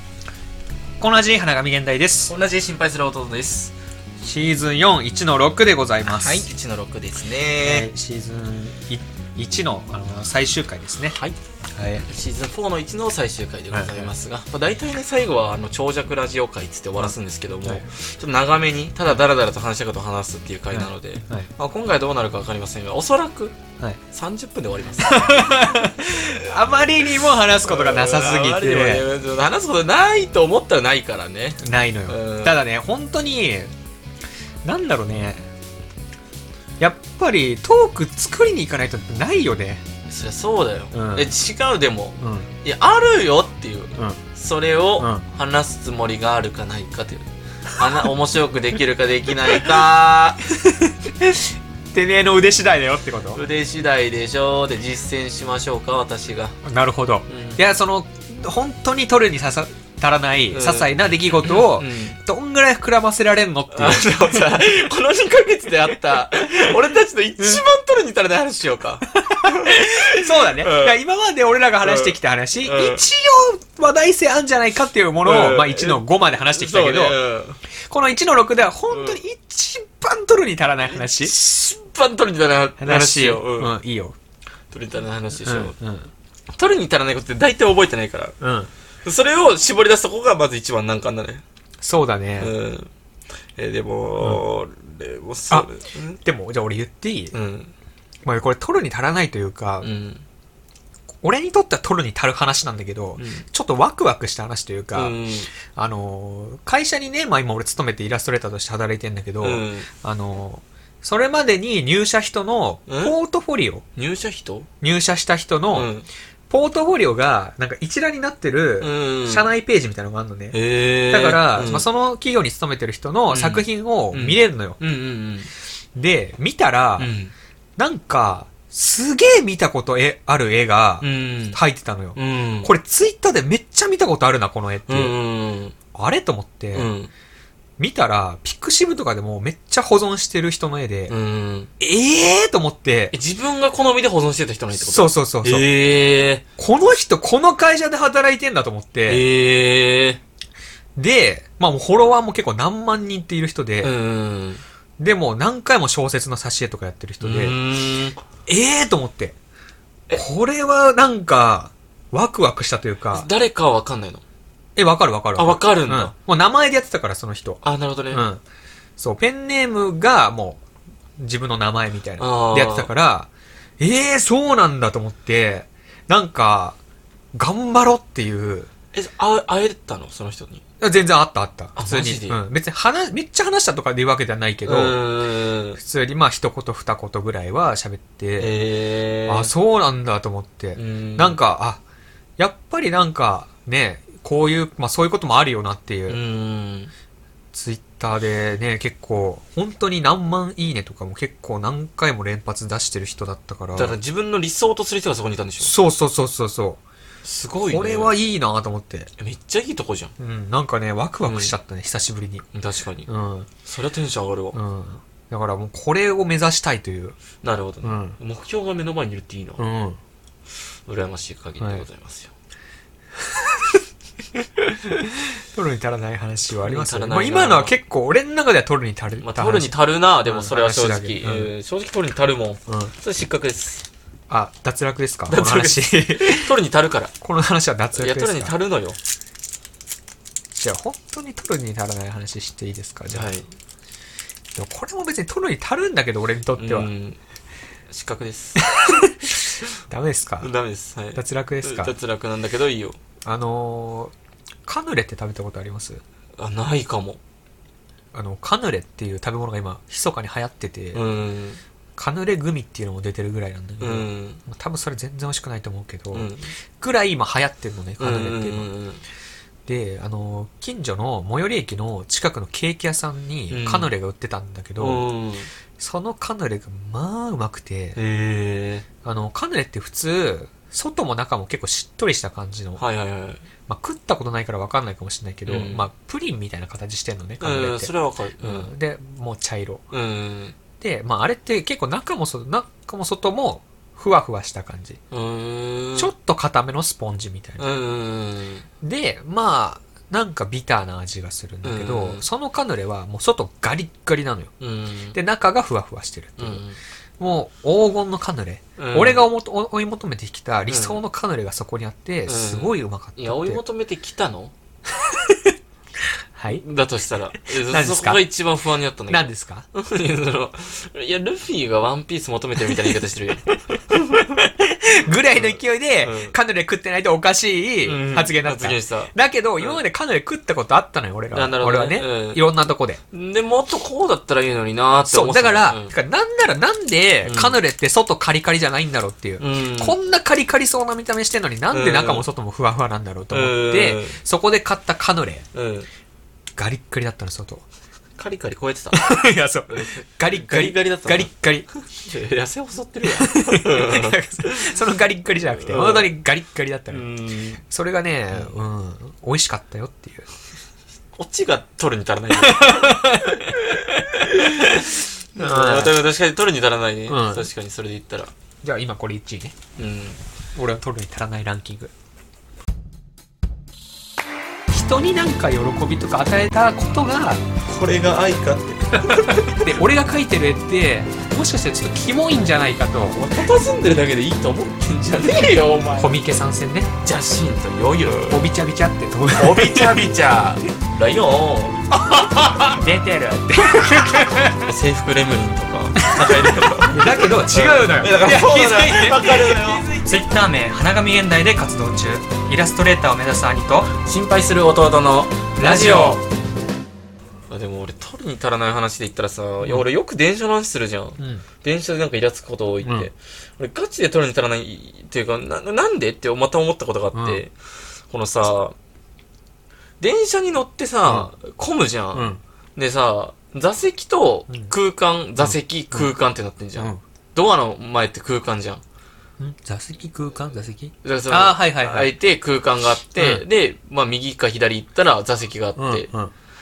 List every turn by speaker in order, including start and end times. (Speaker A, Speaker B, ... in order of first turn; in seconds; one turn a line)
Speaker A: 1.0-2.3
Speaker B: 2.3-3.7
Speaker A: 4.2-6.5
Speaker B: 6.1-7.9
Speaker A: 7.6-11.2
Speaker A: 11.7-12.0
Speaker B: 12.1-23.6
Speaker A: 13.7-14.1
Speaker A: 17.0-17.8
Speaker A: 20.7-21.5
Speaker B: 24.1-26.8
Speaker A: 25.0-29.0
Speaker B: 27.6-32.6
Speaker A: 31.6-33.7
Speaker A: 34.6-35.5
Speaker A: 36.8-39.8
Speaker B: 40.1-47.2
Speaker A: 40.9-41.3
Speaker A: 42.2-42.5
Speaker A: 45.0-45.2
Speaker B: 47.8-50.4
Speaker A: 50.5-53.4
Speaker B: 53.3-56.5
Speaker A: 56.6-64.5
Speaker B: 57.3-57.6
Speaker B: 60.5-62.2
Speaker B: 63.7-71.0
Speaker A: 69.1-77.2
Speaker B: 71.8-73.0
Speaker B: 75.2-77.6
Speaker A: 77.9-81.3
Speaker B: 78.9-79.2
Speaker B: 80.8-83.7
Speaker A: 82.8-84.1
Speaker B: 84.7-85.7
Speaker A: 85.4-86.1
Speaker B: 86.5-88.3
Speaker A: 88.4-88.7
Speaker B: 89.0-91.4
Speaker A: 91.8-92.5
Speaker B: 92.4-92.9
Speaker B: 93.6-96.2
Speaker A: 96.2-97.3
Speaker B: 97.3-97.7
Speaker A: 98.2-99.9
Speaker B: 99.8-100.2
Speaker A: 101.2-113.8
Speaker B: 103.2-103.4
Speaker B: 104.9-105.5
Speaker B: 109.4-109.9
Speaker B: 112.9-113.1
Speaker B: 114.0-114.7
Speaker A: 114.8-115.9
Speaker B: 115.7-116.1
Speaker A: 116.5-120.6
Speaker B: 118.8-119.5
Speaker B: 120.5-121.8
Speaker A: 121.1-124.8
Speaker B: 123.3-125.5
Speaker A: 125.9-127.1
Speaker B: 127.0-127.3
Speaker A: 127.8-135.1
Speaker B: 131.0-131.6
Speaker B: 132.1-132.7
Speaker B: 134.9-135.7
Speaker A: 135.9-136.9
Speaker B: 136.7-137.1
Speaker A: 137.8-141.1
Speaker B: 141.1-141.7
Speaker A: 141.8-143.1
Speaker B: 143.1-146.4
Speaker A: 144.8-145.7
Speaker A: 146.6-149.2
Speaker B: 149.1-150.2
Speaker A: 150.9-153.9
Speaker B: 153.8-154.6
Speaker A: 155.0-157.6
Speaker B: 157.2-158.2
Speaker A: 158.4-159.3
Speaker A: 160.2-163.3
Speaker B: 163.1-164.2
Speaker A: 164.8-168.4
Speaker B: 165.3-166.1
Speaker B: 167.6-168.2
Speaker A: 169.0-170.6
Speaker A: 171.2-176.8
Speaker B: 172.2-172.9
Speaker A: 177.3-178.7
Speaker B: 178.9-180.6
Speaker A: 180.8-185.0
Speaker B: 181.8-182.4
Speaker B: 184.6-185.8
Speaker A: 185.8-188.6
Speaker B: 188.4-189.5
Speaker A: 189.2-191.8
Speaker B: 190.7-191.4
Speaker A: 192.4-196.2
Speaker B: 196.1-196.9
Speaker A: 197.5-203.9
Speaker B: 203.7-205.7
Speaker A: 205.6-206.8
Speaker B: 207.2-208.1
Speaker A: 207.7-209.1
Speaker B: 209.2-210.1
Speaker A: 210.2-212.4
Speaker B: 211.2-211.5
Speaker B: 212.5-213.1
Speaker A: 213.1-213.5
Speaker B: 213.6-214.6
Speaker A: 214.5-217.2
Speaker B: 217.4-219.6
Speaker A: 217.8-218.2
Speaker A: 219.6-220.0
Speaker B: 220.9-222.3
Speaker A: 223.2-223.8
Speaker A: 224.8-231.5
Speaker B: 226.5-227.7
Speaker B: 229.2-233.8
Speaker A: 232.7-232.9
Speaker A: 234.3-236.5
Speaker B: 235.3-237.1
Speaker A: 237.2-238.5
Speaker B: 237.9-239.0
Speaker A: 240.5-243.3
Speaker B: 243.1-243.5
Speaker A: 244.5-246.9
Speaker B: 246.6-247.2
Speaker B: 247.9-248.6
Speaker A: 248.6-250.5
Speaker B: 250.4-253.0
Speaker A: 251.1-251.9
Speaker A: 253.2-254.1
Speaker A: 254.7-256.0
Speaker B: 256.4-257.2
Speaker A: 258.1-261.0
Speaker B: 260.9-261.6
Speaker A: 262.0-268.7
Speaker B: 263.8-264.4
Speaker B: 266.1-266.5
Speaker B: 268.0-269.0
Speaker A: 269.6-275.0
Speaker B: 273.5-273.9
Speaker B: 274.8-275.5
Speaker A: 275.8-278.0
Speaker B: 277.9-278.9
Speaker A: 279.0-282.8
Speaker B: 282.8-283.4
Speaker A: 283.7-289.8
Speaker B: 285.5-285.9
Speaker B: 287.4-288.7
Speaker B: 289.9-290.5
Speaker A: 290.8-295.0
Speaker B: 295.1-296.1
Speaker A: 295.9-297.6
Speaker B: 297.6-298.6
Speaker A: 298.8-304.5
Speaker B: 301.6-302.2
Speaker B: 304.6-305.2
Speaker A: 305.1-306.6
Speaker B: 306.4-306.8
Speaker A: 307.2-313.6
Speaker B: 308.8-309.2
Speaker B: 310.7-311.0
Speaker B: 312.3-314.5
Speaker A: 314.9-315.5
Speaker A: 316.3-316.6
Speaker B: 316.5-324.3
Speaker A: 317.6-318.2
Speaker A: 319.1-319.6
Speaker A: 324.1-333.0
Speaker B: 325.3-326.3
Speaker B: 327.8-329.8
Speaker B: 331.3-332.4
Speaker B: 333.1-335.9
Speaker A: 335.1-345.4
Speaker B: 337.2-337.6
Speaker B: 339.4-339.9
Speaker B: 341.7-342.2
Speaker B: 343.3-344.2
Speaker B: 345.5-345.9
Speaker A: 346.5-347.6
Speaker B: 348.2-349.1
Speaker A: 348.9-351.7
Speaker B: 349.7-351.3
Speaker B: 351.9-354.7
Speaker A: 353.0-357.1
Speaker B: 355.6-356.1
Speaker B: 356.9-357.6
Speaker A: 357.6-360.3
Speaker B: 361.1-368.3
Speaker A: 362.3-366.0
Speaker A: 367.1-367.5
Speaker A: 368.6-369.5
Speaker B: 369.8-370.2
Speaker A: 370.5-371.9
Speaker A: 374.7-377.4
Speaker B: 377.6-379.7
Speaker A: 379.0-383.2
Speaker B: 383.1-386.1
Speaker A: 385.9-386.9
Speaker B: 387.0-388.4
Speaker A: 388.0-390.2
Speaker B: 389.3-391.8
Speaker A: 391.9-394.7
Speaker B: 394.6-400.1
Speaker A: 396.1-403.9
Speaker B: 404.0-406.2
Speaker A: 405.6-406.2
Speaker B: 407.5-417.5
Speaker A: 411.2-411.4
Speaker A: 412.8-413.1
Speaker A: 417.1-417.4
Speaker B: 418.1-418.7
Speaker B: 420.0-428.8
Speaker A: 422.1-422.4
Speaker A: 425.4-426.1
Speaker A: 429.4-432.1
Speaker B: 431.0-436.1
Speaker A: 433.2-433.4
Speaker A: 435.8-436.3